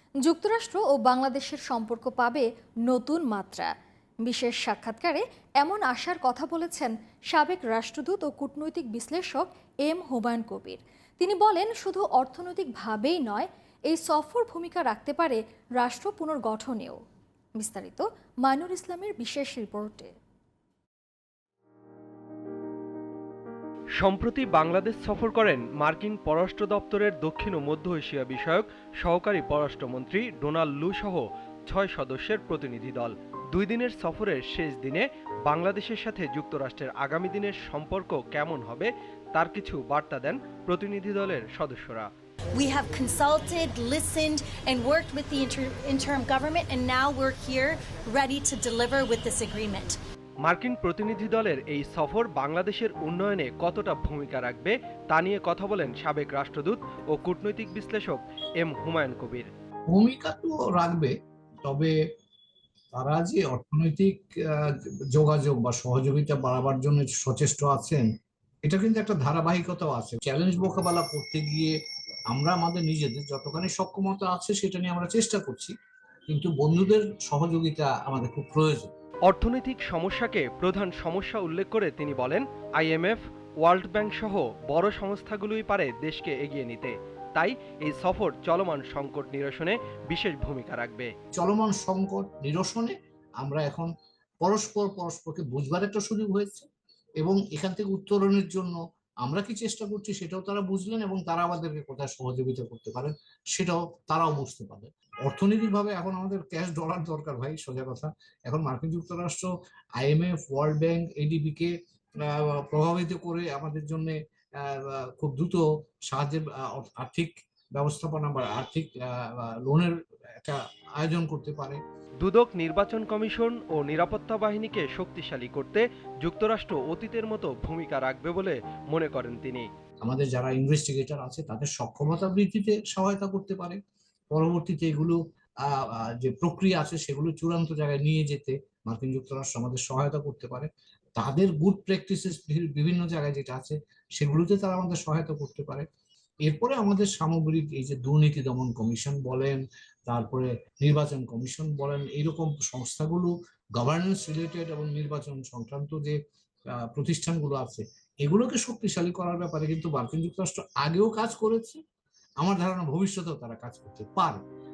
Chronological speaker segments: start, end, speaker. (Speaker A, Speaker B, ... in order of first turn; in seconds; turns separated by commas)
Speaker A: 0.2-3.7, Speaker A: 4.2-17.0, Speaker A: 17.6-20.1, Speaker B: 24.0-42.1, Speaker C: 42.5-50.0, Speaker B: 50.4-59.5, Speaker D: 59.9-61.1, Speaker D: 61.6-61.9, Speaker D: 62.9-68.1, Speaker D: 68.7-71.8, Speaker D: 72.3-75.7, Speaker D: 76.3-78.9, Speaker B: 79.3-91.1, Speaker D: 91.3-93.9, Speaker D: 94.4-96.7, Speaker D: 97.2-121.8, Speaker B: 122.2-129.7, Speaker D: 130.0-133.8, Speaker D: 134.3-145.8, Speaker D: 146.4-156.2, Speaker D: 156.8-161.8, Speaker D: 162.4-164.4